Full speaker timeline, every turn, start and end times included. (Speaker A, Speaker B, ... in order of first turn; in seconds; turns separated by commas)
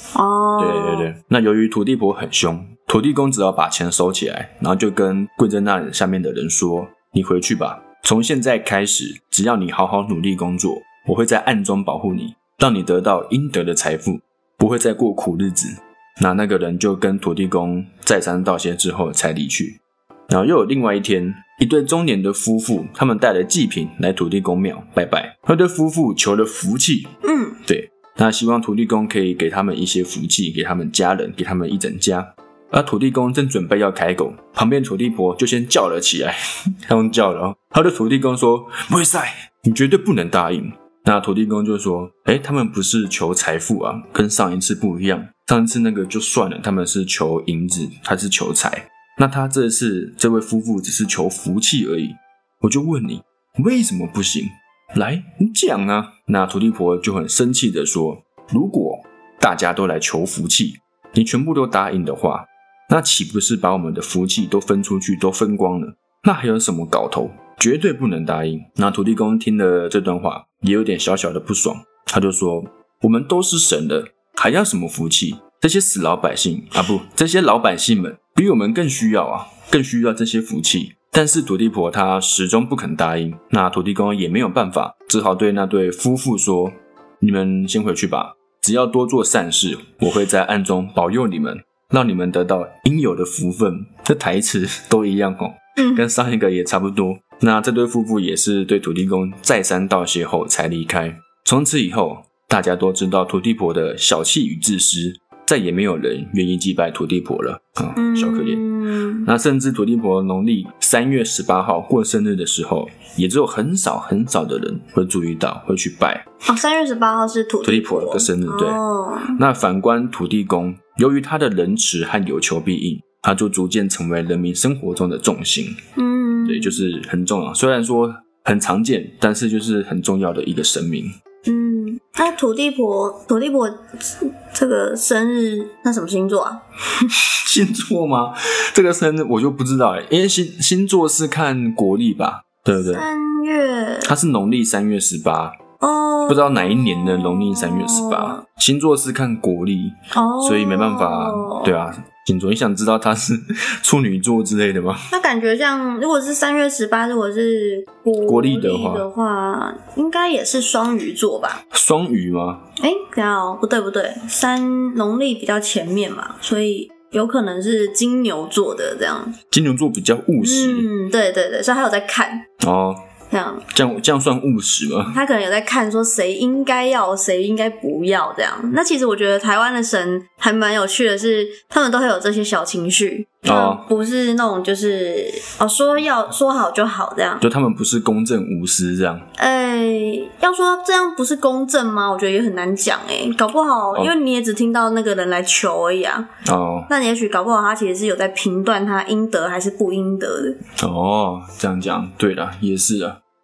Speaker A: 0.1-1.1, Speaker B: 0.6-27.1, Speaker A: 27.2-27.6, Speaker B: 27.7-108.6, Speaker A: 95.8-96.0, Speaker A: 108.0-109.3, Speaker B: 109.2-116.2, Speaker A: 116.5-119.4, Speaker B: 117.6-118.8, Speaker B: 119.3-125.8, Speaker A: 126.0-126.8, Speaker B: 126.4-131.1, Speaker A: 131.4-136.6, Speaker B: 137.2-143.0, Speaker A: 142.8-144.1, Speaker B: 144.0-145.5, Speaker A: 145.8-148.4, Speaker B: 146.3-155.1, Speaker A: 150.1-151.7, Speaker A: 155.1-161.6, Speaker B: 158.2-159.1, Speaker B: 161.7-162.6, Speaker A: 162.8-169.3, Speaker B: 169.5-170.9, Speaker A: 170.4-172.4, Speaker B: 172.6-173.0, Speaker A: 173.3-173.6, Speaker B: 173.7-175.2, Speaker A: 175.1-187.4, Speaker B: 183.4-183.8, Speaker B: 187.4-189.3, Speaker A: 189.4-196.3, Speaker B: 196.4-196.9, Speaker A: 196.9-200.6, Speaker B: 200.8-203.2